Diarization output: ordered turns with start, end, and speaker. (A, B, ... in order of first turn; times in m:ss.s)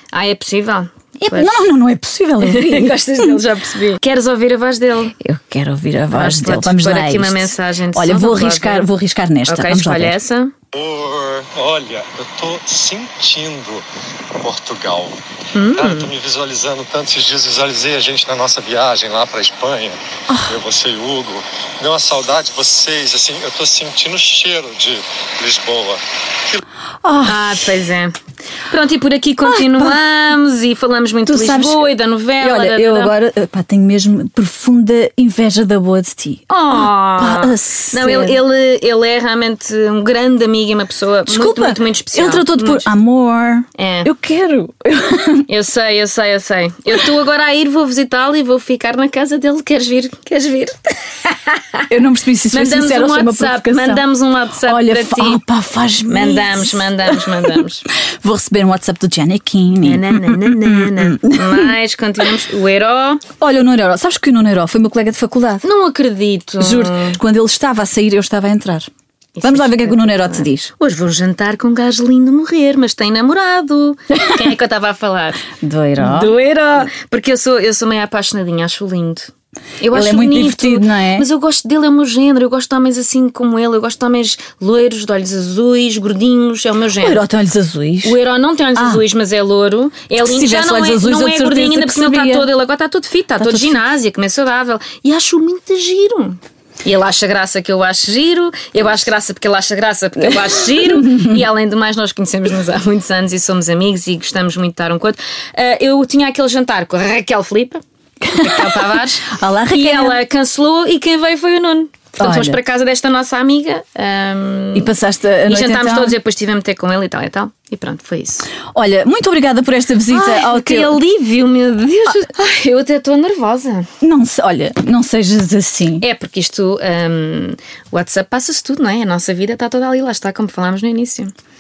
0:00.1-0:01.7 A
0:01.2-0:03.4 B
0:02.4-0:05.1 A
0:05.2-0:10.2 B
0:06.1-0:08.9 A
0:09.5-0:10.5 A
0:10.7-0:13.9 C
0:14.4-0:26.6 C
0:15.5-0:16.1 A
0:20.3-0:20.6 B
0:27.0-0:27.6 B
0:27.2-0:28.1 A
0:28.7-0:33.1 A
0:29.4-0:30.0 B
0:31.3-0:38.4 B
0:36.5-0:42.9 A
0:41.3-0:45.5 B
0:43.8-0:44.1 A
0:45.5-0:51.8 A
0:51.9-0:54.0 B
0:52.5-0:55.4 A
0:54.6-1:01.7 B
0:56.1-0:57.8 A
0:59.8-1:03.2 A
1:03.4-1:05.6 B
1:05.6-1:07.2 A
1:06.6-1:08.9 B
1:09.4-1:15.4 A
1:09.4-1:10.7 B
1:14.1-1:14.4 B
1:15.6-1:16.3 B
1:16.0-1:27.2 A
1:19.9-1:21.3 B
1:27.0-1:28.2 B
1:28.0-1:47.8 A
1:28.7-1:29.0 B
1:30.2-1:32.5 B
1:33.4-1:33.8 B
1:40.2-1:41.4 B
1:48.2-1:50.2 B
1:48.4-1:54.9 A
1:52.2-1:52.6 B
1:54.7-1:56.2 B
1:55.5-1:58.5 A
1:58.7-2:01.0 B
2:00.1-2:03.9 A
2:04.0-2:06.0 B
2:06.0-2:11.3 A